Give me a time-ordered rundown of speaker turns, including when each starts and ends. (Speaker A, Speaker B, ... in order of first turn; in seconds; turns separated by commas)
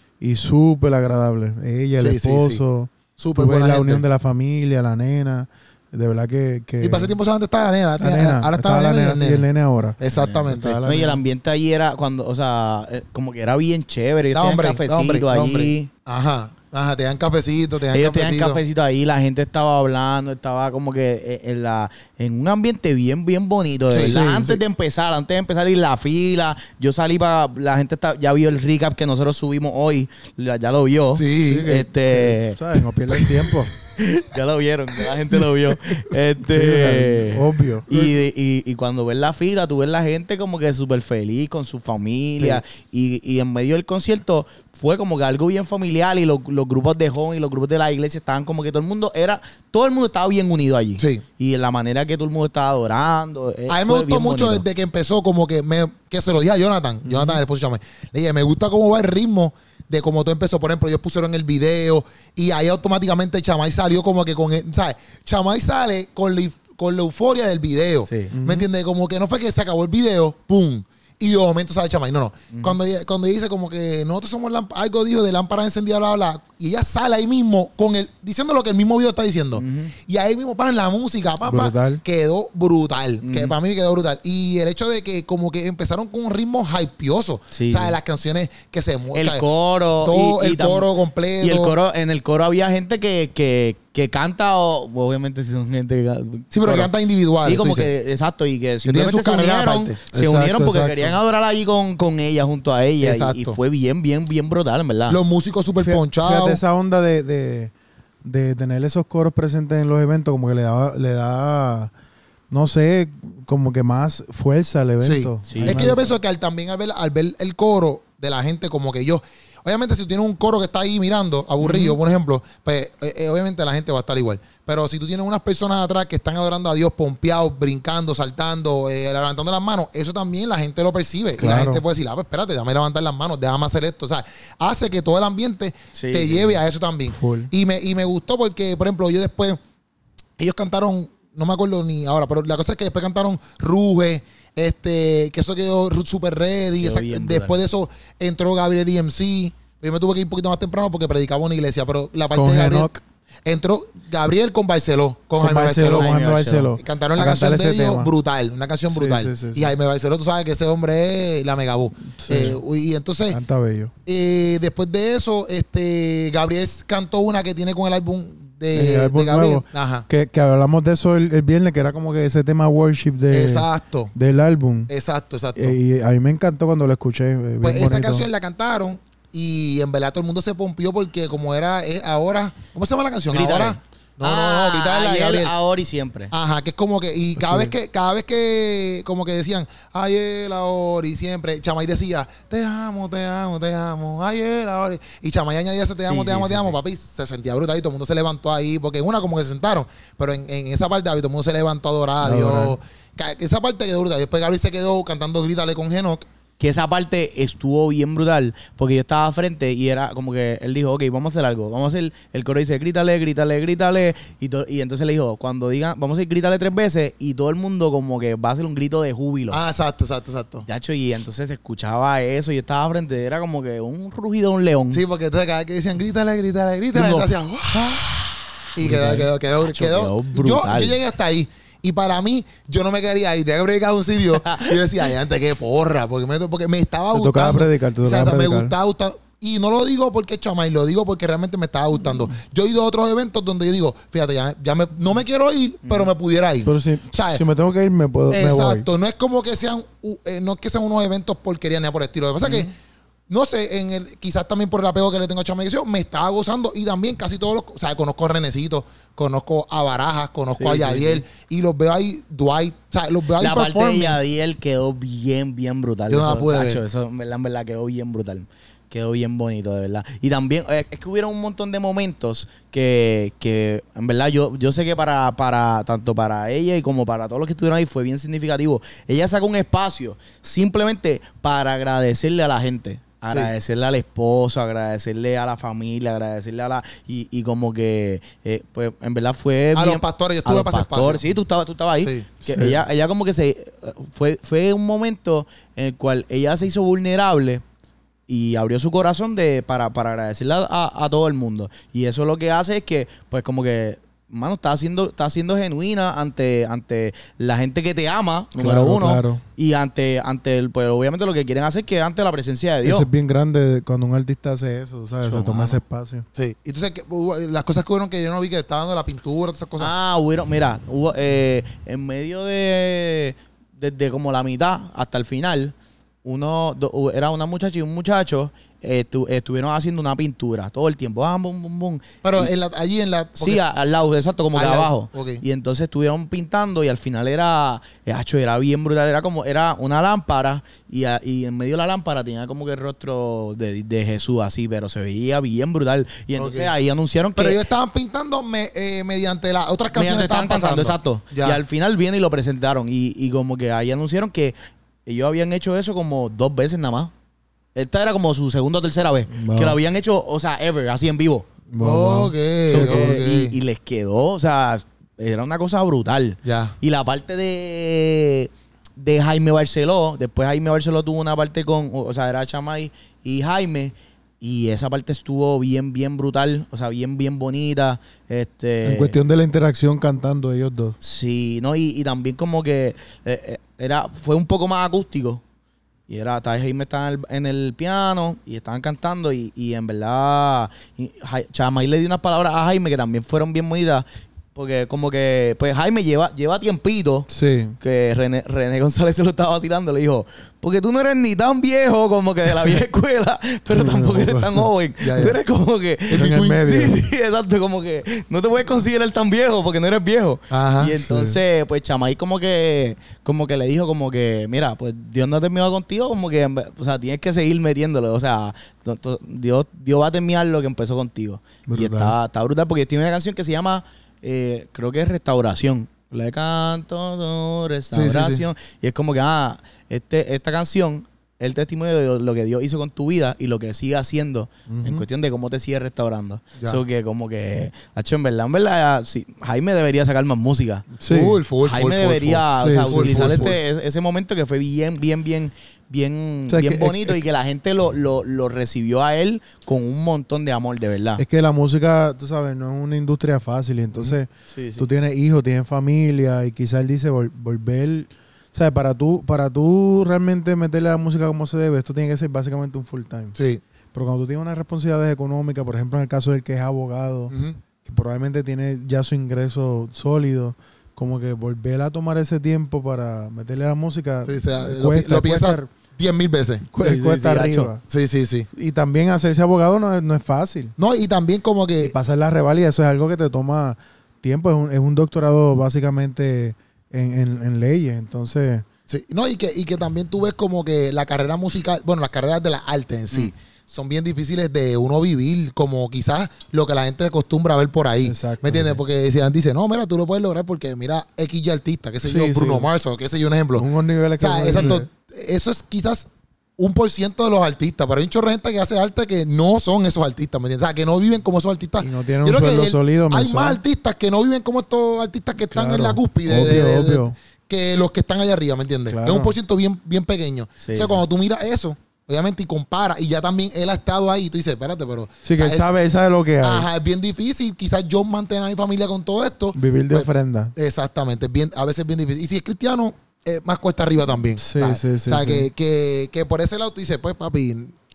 Speaker A: 0.2-7.1, Speaker B: 2.0-2.6, Speaker B: 3.2-4.0, Speaker B: 6.8-9.5, Speaker A: 8.0-10.0, Speaker B: 10.0-10.8, Speaker C: 10.1-15.9, Speaker A: 10.5-11.2, Speaker B: 14.3-18.6, Speaker C: 17.9-32.6, Speaker B: 23.9-24.6, Speaker A: 24.0-24.5, Speaker B: 31.1-31.7, Speaker A: 31.4-33.7, Speaker C: 34.0-54.6, Speaker B: 35.3-35.7, Speaker A: 36.4-38.2, Speaker B: 51.0-51.2, Speaker B: 53.7-89.4, Speaker A: 57.1-57.4, Speaker C: 68.1-68.3, Speaker A: 68.3-68.7, Speaker C: 79.6-79.9, Speaker A: 81.4-82.0, Speaker C: 83.2-83.5, Speaker C: 87.5-88.0, Speaker C: 89.1-90.9, Speaker B: 90.0-91.8, Speaker C: 91.4-105.2, Speaker B: 96.5-97.9, Speaker B: 98.8-100.0, Speaker A: 100.1-101.2, Speaker B: 103.0-103.6, Speaker B: 105.1-106.6, Speaker A: 105.8-107.7, Speaker A: 108.2-111.9, Speaker A: 112.5-116.1, Speaker B: 115.0-139.6, Speaker C: 115.5-116.0, Speaker A: 121.6-121.9, Speaker A: 131.4-131.8, Speaker C: 135.9-136.6, Speaker A: 137.1-137.5, Speaker B: 140.4-152.9, Speaker C: 146.8-147.6, Speaker A: 152.3-153.0, Speaker B: 153.4-156.1, Speaker A: 155.4-158.1, Speaker C: 155.9-156.8, Speaker B: 156.8-163.4, Speaker A: 158.9-159.7, Speaker A: 162.1-162.6, Speaker A: 163.3-163.9, Speaker B: 164.1-170.1, Speaker A: 168.7-174.9, Speaker B: 173.3-174.1, Speaker B: 174.9-175.8, Speaker A: 175.6-178.3, Speaker B: 177.6-185.5, Speaker C: 183.3-186.3, Speaker B: 186.3-206.3, Speaker A: 187.4-187.7, Speaker C: 196.1-196.8, Speaker A: 202.2-202.8, Speaker C: 206.6-219.6, Speaker B: 219.5-220.7, Speaker C: 220.7-225.0, Speaker B: 224.9-228.1, Speaker C: 226.9-231.0, Speaker B: 228.8-247.4, Speaker C: 234.4-234.8, Speaker A: 237.1-238.7, Speaker C: 245.8-246.1, Speaker A: 246.6-248.9, Speaker B: 248.3-252.7, Speaker B: 253.3-264.2, Speaker C: 260.6-261.2, Speaker C: 263.4-297.6, Speaker B: 266.1-266.8, Speaker B: 289.7-291.2, Speaker B: 292.0-292.3, Speaker A: 292.4-292.8, Speaker C: 298.3-313.1, Speaker A: 308.6-309.4, Speaker A: 312.8-316.2, Speaker C: 315.2-315.8, Speaker B: 316.4-319.9, Speaker C: 319.8-332.5, Speaker B: 332.2-333.6, Speaker C: 333.4-347.6, Speaker B: 334.6-335.4, Speaker B: 346.4-346.7, Speaker B: 347.4-351.6, Speaker C: 349.9-354.6, Speaker C: 355.1-357.1, Speaker C: 357.8-361.5, Speaker A: 359.3-359.8, Speaker A: 361.7-363.2, Speaker B: 361.8-363.6, Speaker C: 362.7-379.1, Speaker B: 366.4-366.8, Speaker A: 378.8-381.0, Speaker C: 381.0-385.4, Speaker C: 386.1-397.3, Speaker A: 397.3-397.8, Speaker C: 397.8-440.9, Speaker A: 403.7-404.7, Speaker B: 405.0-405.4, Speaker B: 406.1-406.6, Speaker A: 406.1-407.0, Speaker B: 410.5-410.9, Speaker A: 411.0-411.4, Speaker A: 421.7-422.1, Speaker B: 427.9-428.4, Speaker A: 434.7-435.1, Speaker A: 441.0-441.4, Speaker B: 441.1-443.6, Speaker C: 441.6-451.2, Speaker A: 442.6-443.5, Speaker A: 446.5-447.2, Speaker A: 451.2-463.4, Speaker C: 454.5-454.9, Speaker B: 463.4-463.6, Speaker A: 463.9-475.7, Speaker B: 467.3-467.6, Speaker B: 474.2-476.7, Speaker A: 476.7-477.8, Speaker C: 476.8-477.7, Speaker B: 477.9-478.5, Speaker A: 478.5-480.8, Speaker B: 480.8-481.9, Speaker A: 481.8-488.6, Speaker B: 488.9-503.7, Speaker A: 498.0-498.8, Speaker A: 502.0-502.7, Speaker A: 503.6-504.9, Speaker B: 504.2-525.7, Speaker A: 511.8-513.6, Speaker A: 515.4-517.1, Speaker A: 518.9-519.4, Speaker C: 520.6-521.0, Speaker A: 525.2-526.7, Speaker B: 526.4-537.8, Speaker A: 529.5-530.5, Speaker A: 534.4-535.5